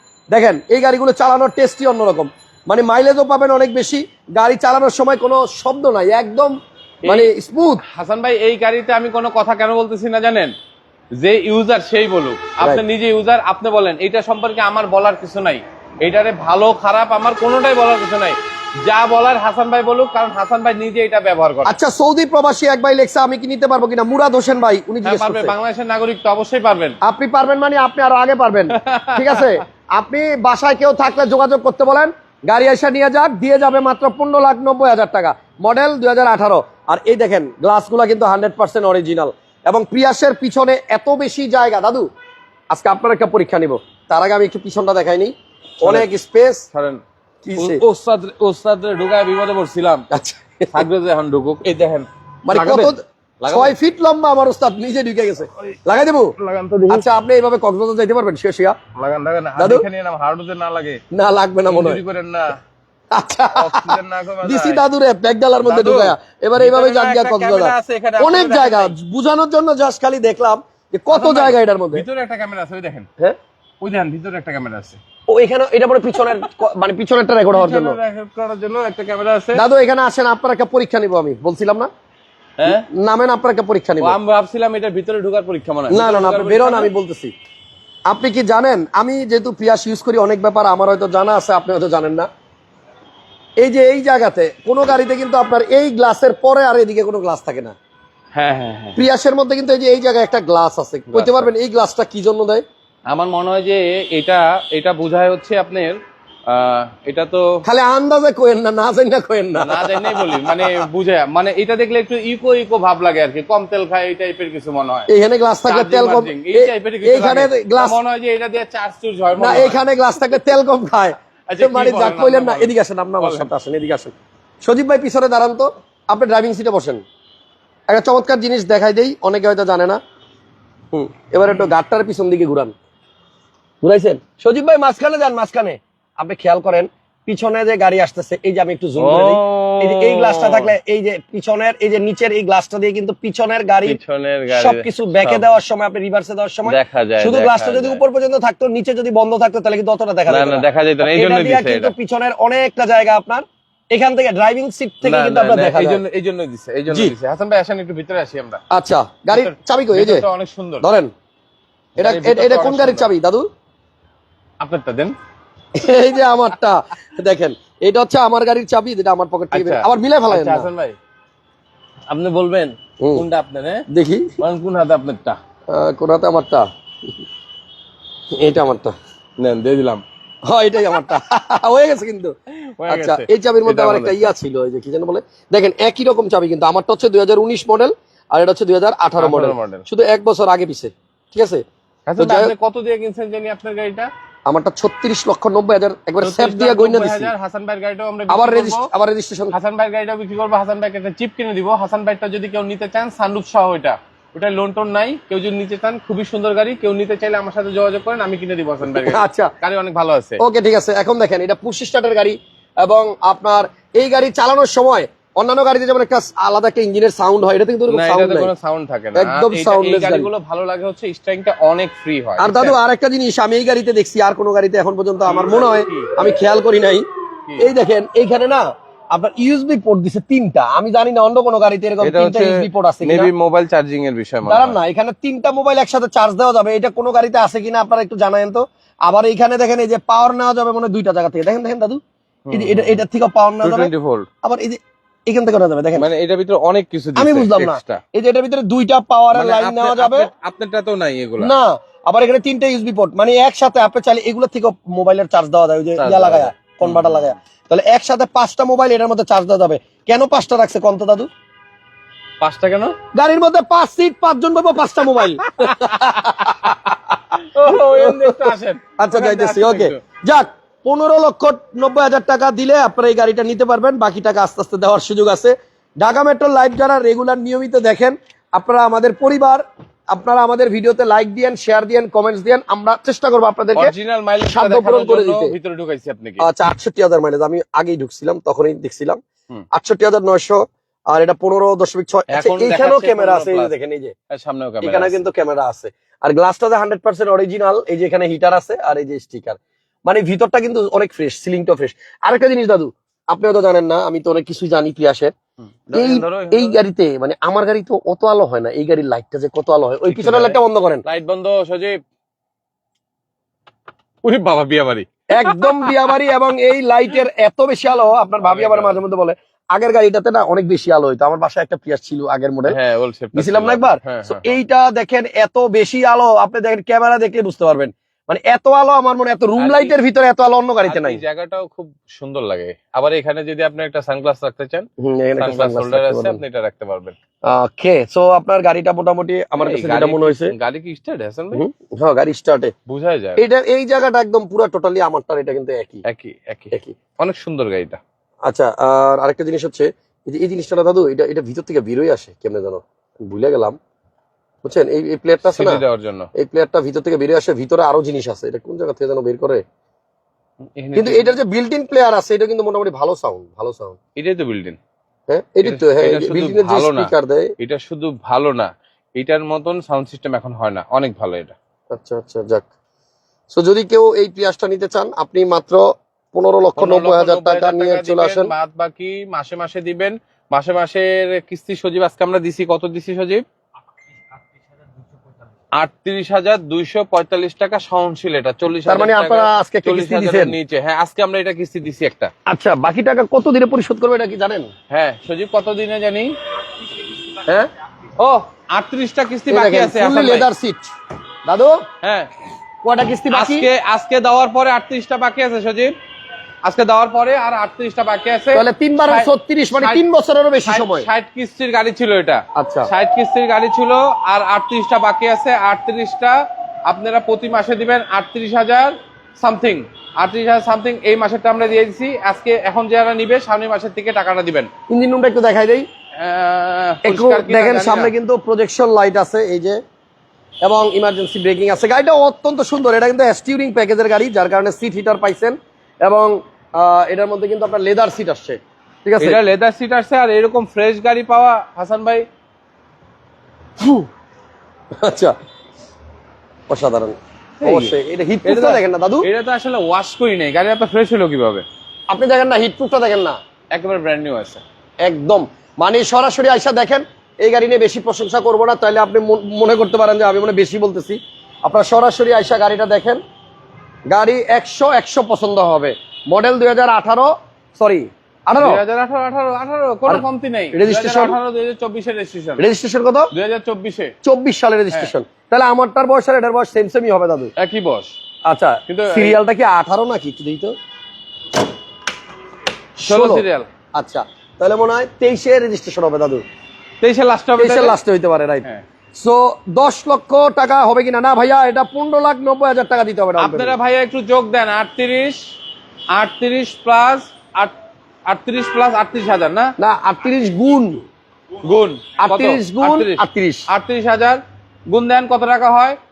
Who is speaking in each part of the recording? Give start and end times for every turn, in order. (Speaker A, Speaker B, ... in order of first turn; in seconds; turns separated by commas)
Speaker A: 0.3-6.5, Speaker B: 7.0-7.3, Speaker A: 7.1-7.8, Speaker B: 7.9-10.5, Speaker B: 11.2-21.8, Speaker A: 21.6-25.5, Speaker B: 25.0-27.0, Speaker A: 27.0-42.1, Speaker B: 28.7-29.6, Speaker A: 42.7-46.6, Speaker B: 45.8-46.1, Speaker B: 46.7-47.0, Speaker A: 47.4-47.8, Speaker B: 47.6-50.1, Speaker A: 50.1-50.8, Speaker B: 50.7-53.7, Speaker A: 52.4-56.3, Speaker B: 56.4-57.1, Speaker A: 56.9-58.8, Speaker B: 58.9-61.0, Speaker A: 59.6-59.9, Speaker A: 61.1-62.0, Speaker B: 61.7-62.6, Speaker A: 63.1-72.1, Speaker B: 63.6-64.8, Speaker B: 65.6-68.9, Speaker B: 71.1-73.1, Speaker B: 73.8-75.0, Speaker A: 75.3-78.0, Speaker B: 76.2-76.5, Speaker B: 77.5-79.6, Speaker A: 79.5-81.9, Speaker B: 82.6-82.8, Speaker A: 82.7-84.2, Speaker B: 84.0-86.9, Speaker A: 85.9-87.3, Speaker A: 88.1-92.3, Speaker A: 93.6-97.8, Speaker B: 98.3-99.0, Speaker A: 99.0-102.6, Speaker B: 101.1-101.5, Speaker B: 103.1-107.6, Speaker A: 107.6-110.8, Speaker B: 109.6-115.1, Speaker A: 115.1-118.0, Speaker B: 115.7-119.8, Speaker A: 119.4-127.0, Speaker B: 121.5-123.5, Speaker A: 127.9-130.0, Speaker A: 130.9-132.7, Speaker A: 133.8-144.0, Speaker B: 139.0-140.7, Speaker B: 143.8-145.5, Speaker A: 144.5-156.0, Speaker B: 146.6-148.0, Speaker B: 150.3-151.9, Speaker B: 155.0-158.6, Speaker A: 156.9-157.1, Speaker A: 158.7-160.3, Speaker B: 159.3-160.9, Speaker A: 160.8-161.1, Speaker B: 162.0-163.1, Speaker A: 162.0-163.5, Speaker B: 164.6-165.2, Speaker A: 165.8-170.7, Speaker B: 169.5-171.0, Speaker B: 172.1-173.8, Speaker A: 173.0-173.2, Speaker A: 173.9-174.3, Speaker B: 174.4-175.4, Speaker A: 175.7-176.6, Speaker A: 178.3-178.9, Speaker B: 179.4-180.0, Speaker A: 180.4-182.3, Speaker B: 182.7-184.3, Speaker A: 182.9-191.6, Speaker B: 189.2-189.8, Speaker B: 192.1-194.1, Speaker A: 192.2-192.5, Speaker A: 194.4-197.3, Speaker B: 196.2-198.9, Speaker A: 198.3-199.5, Speaker B: 199.5-210.4, Speaker A: 208.9-209.5, Speaker A: 210.4-218.5, Speaker B: 217.9-222.8, Speaker A: 219.2-220.3, Speaker A: 222.4-227.1, Speaker B: 225.2-226.1, Speaker A: 227.6-233.3, Speaker B: 232.0-234.8, Speaker A: 234.4-242.0, Speaker B: 242.5-243.0, Speaker A: 242.5-243.9, Speaker B: 243.6-244.3, Speaker A: 244.4-246.1, Speaker B: 245.9-248.0, Speaker A: 247.2-250.3, Speaker B: 249.3-251.5, Speaker A: 251.4-261.3, Speaker B: 256.0-257.3, Speaker B: 262.4-262.9, Speaker A: 263.1-285.6, Speaker B: 265.4-270.0, Speaker B: 283.8-286.4, Speaker A: 286.4-289.2, Speaker A: 289.7-294.1, Speaker B: 292.3-293.7, Speaker B: 294.3-295.2, Speaker A: 294.8-305.3, Speaker B: 305.9-306.8, Speaker A: 305.9-311.1, Speaker B: 310.1-312.0, Speaker B: 314.2-316.2, Speaker A: 315.3-322.8, Speaker B: 318.4-319.0, Speaker B: 322.7-324.6, Speaker A: 323.3-331.2, Speaker B: 329.6-330.0, Speaker B: 330.9-337.2, Speaker A: 335.0-336.4, Speaker A: 337.4-340.5, Speaker B: 339.6-341.6, Speaker A: 341.5-342.7, Speaker B: 342.9-343.4, Speaker A: 343.4-346.1, Speaker B: 346.1-348.0, Speaker A: 348.4-353.8, Speaker A: 354.6-355.8, Speaker B: 355.4-356.3, Speaker A: 356.3-359.6, Speaker B: 360.8-361.4, Speaker A: 360.9-364.0, Speaker B: 364.2-364.8, Speaker A: 365.3-367.5, Speaker B: 365.6-371.6, Speaker A: 371.9-372.7, Speaker A: 373.5-378.5, Speaker B: 376.8-383.4, Speaker B: 385.7-392.3, Speaker A: 388.9-390.6, Speaker A: 392.5-394.7, Speaker B: 394.9-396.4, Speaker B: 398.2-400.5, Speaker A: 399.5-400.9, Speaker A: 401.4-401.8, Speaker B: 402.0-402.3, Speaker A: 402.8-403.7, Speaker B: 403.3-405.9, Speaker B: 406.6-410.0, Speaker A: 408.5-411.1, Speaker B: 410.6-424.7, Speaker A: 412.6-412.9, Speaker A: 424.9-425.8, Speaker B: 426.2-428.1, Speaker A: 427.1-429.8, Speaker A: 430.6-439.4, Speaker B: 439.2-442.2, Speaker A: 445.0-445.3, Speaker A: 446.7-449.3, Speaker B: 447.6-451.6, Speaker A: 452.1-453.4, Speaker B: 453.7-454.6, Speaker A: 455.0-463.2, Speaker A: 464.1-468.8, Speaker B: 468.6-472.7, Speaker A: 470.1-471.4, Speaker A: 472.6-473.3, Speaker B: 473.3-474.1, Speaker A: 474.2-477.5, Speaker B: 477.6-478.2, Speaker A: 478.4-480.7, Speaker B: 478.9-479.4, Speaker A: 483.0-486.4, Speaker B: 483.1-483.7, Speaker B: 487.0-488.0, Speaker A: 487.6-493.8, Speaker B: 493.4-495.4, Speaker B: 496.1-497.7, Speaker B: 498.3-499.7, Speaker A: 499.8-501.0, Speaker B: 501.6-506.0, Speaker A: 502.2-503.7